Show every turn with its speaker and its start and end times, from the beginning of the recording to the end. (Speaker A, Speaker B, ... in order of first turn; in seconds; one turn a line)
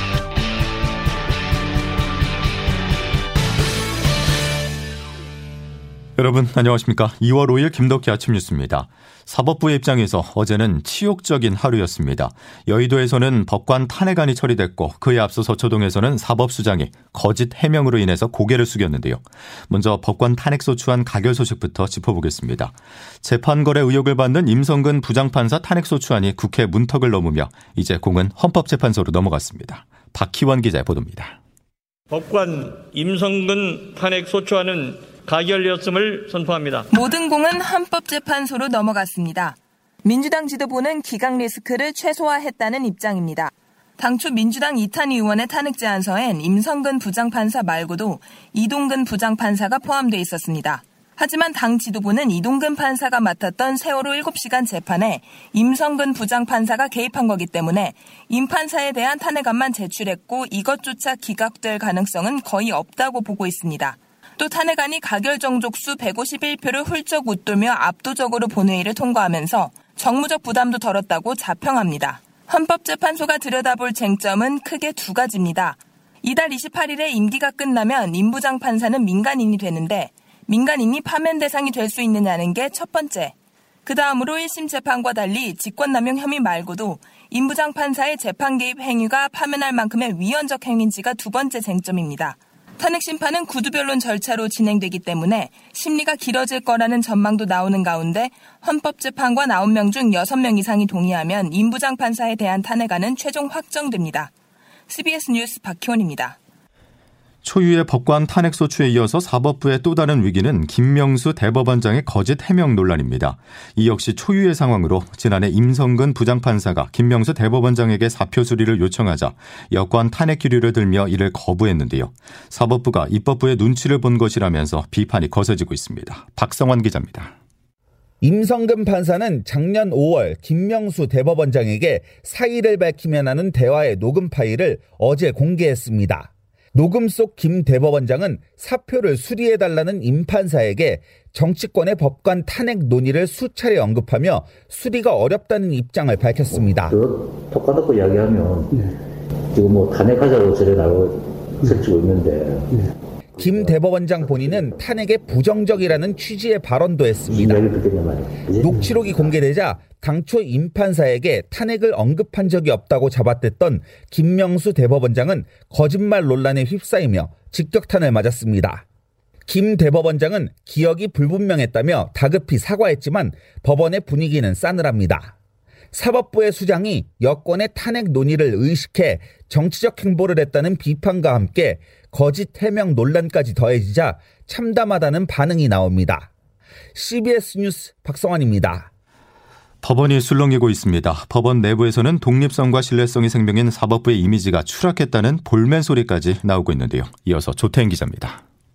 Speaker A: 6.2-31.4
Speaker B: 32.1-36.9
Speaker C: 36.9-83.3
Speaker C: 83.8-104.3
Speaker C: 104.9-106.3
Speaker A: 107.4-127.3
Speaker D: 128.2-147.0
Speaker E: 146.5-148.8
Speaker E: 149.5-152.8
Speaker D: 153.3-157.7
Speaker E: 153.4-153.7
Speaker E: 157.3-159.3
Speaker D: 158.6-168.8
Speaker D: 169.5-175.3
Speaker D: 175.9-186.3
Speaker D: 186.9-188.9
Speaker A: 189.8-198.4